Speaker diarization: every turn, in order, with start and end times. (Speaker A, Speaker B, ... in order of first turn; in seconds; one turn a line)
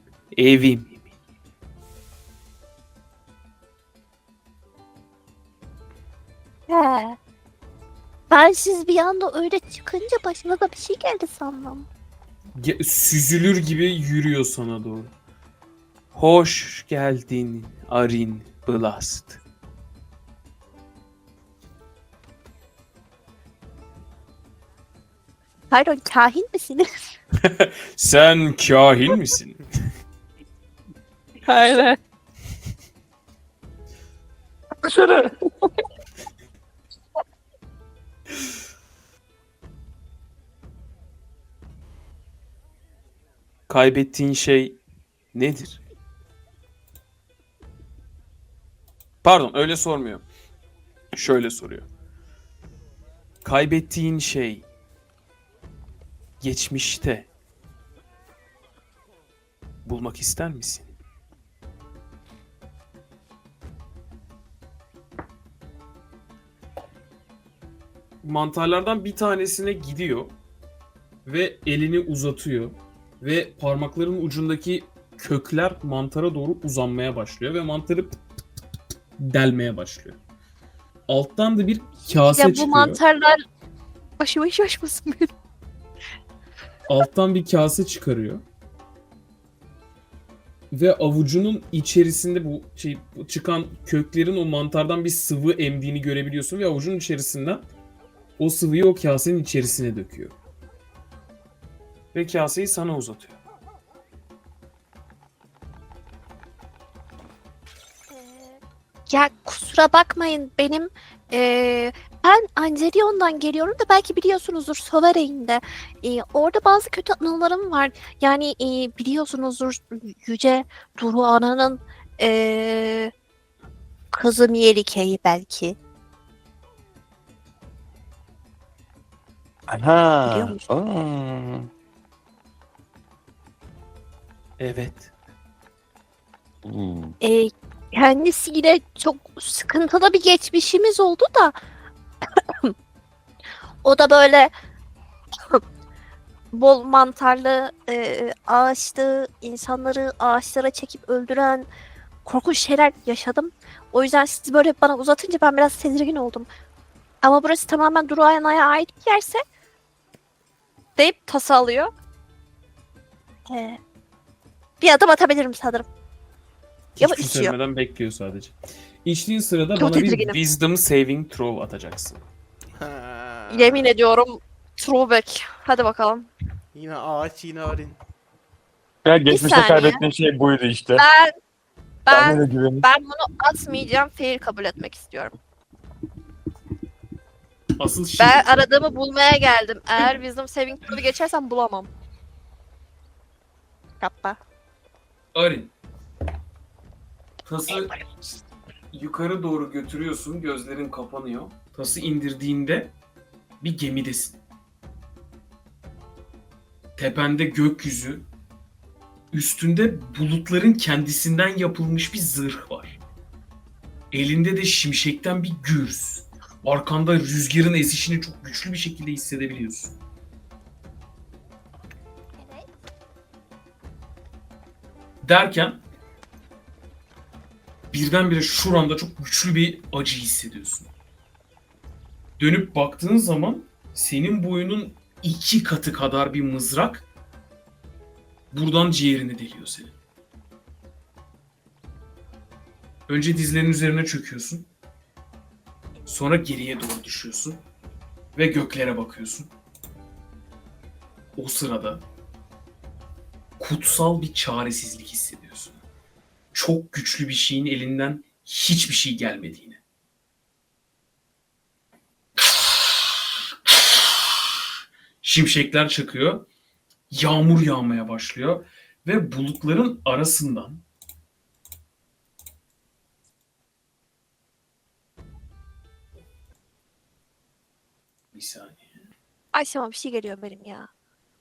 Speaker A: 0.3-1.0
Speaker B: 6.7-7.2
Speaker B: 8.3-11.9
Speaker A: 12.6-15.1
Speaker A: 16.1-19.4
Speaker B: 25.7-26.9
Speaker A: 27.4-29.7
Speaker B: 31.4-32.0
Speaker C: 34.8-35.3
Speaker A: 43.7-44.8
Speaker A: 45.3-45.8
Speaker A: 49.2-50.3
Speaker A: 51.1-51.9
Speaker A: 53.4-54.7
Speaker A: 56.4-57.3
Speaker A: 59.9-61.0
Speaker A: 68.2-70.3
Speaker A: 71.3-78.2
Speaker A: 79.2-80.2
Speaker A: 81.1-83.0
Speaker B: 82.1-83.4
Speaker B: 84.2-85.3
Speaker A: 86.9-88.4
Speaker A: 90.7-97.7
Speaker A: 98.4-100.3
Speaker A: 102.1-103.4
Speaker B: 108.1-123.1
Speaker B: 124.1-125.8
Speaker C: 129.7-131.7
Speaker B: 130.2-130.7
Speaker A: 134.6-135.1
Speaker C: 136.7-137.1
Speaker B: 137.2-141.6
Speaker B: 142.4-142.7
Speaker B: 143.8-144.5
Speaker B: 146.5-151.7
Speaker B: 152.2-156.5
Speaker B: 157.2-159.4
Speaker B: 161.0-161.9
Speaker B: 163.5-163.8
Speaker B: 164.8-165.9
Speaker A: 167.0-172.2
Speaker B: 167.0-167.6
Speaker B: 169.8-170.4
Speaker D: 172.8-173.9
Speaker B: 173.5-176.3
Speaker D: 176.7-178.0
Speaker C: 179.0-181.1
Speaker B: 179.3-180.0
Speaker B: 181.0-181.3
Speaker B: 182.1-185.3
Speaker C: 182.1-182.9
Speaker A: 187.8-188.5
Speaker B: 188.2-191.9
Speaker B: 194.0-194.4
Speaker A: 195.3-195.7
Speaker A: 197.4-197.9
Speaker B: 197.7-198.1
Speaker A: 198.9-202.9
Speaker A: 203.6-204.4
Speaker A: 207.0-208.3
Speaker A: 209.3-213.0
Speaker A: 214.1-219.9
Speaker B: 222.4-222.7
Speaker A: 225.2-225.8
Speaker A: 227.9-230.9
Speaker A: 232.4-237.1
Speaker A: 238.5-239.9
Speaker A: 243.1-244.7
Speaker A: 246.1-247.6
Speaker A: 248.3-249.5
Speaker A: 251.4-252.0
Speaker A: 253.6-255.8
Speaker A: 256.5-259.8
Speaker A: 265.2-266.4
Speaker A: 267.1-270.8
Speaker A: 278.3-278.9
Speaker B: 279.5-280.9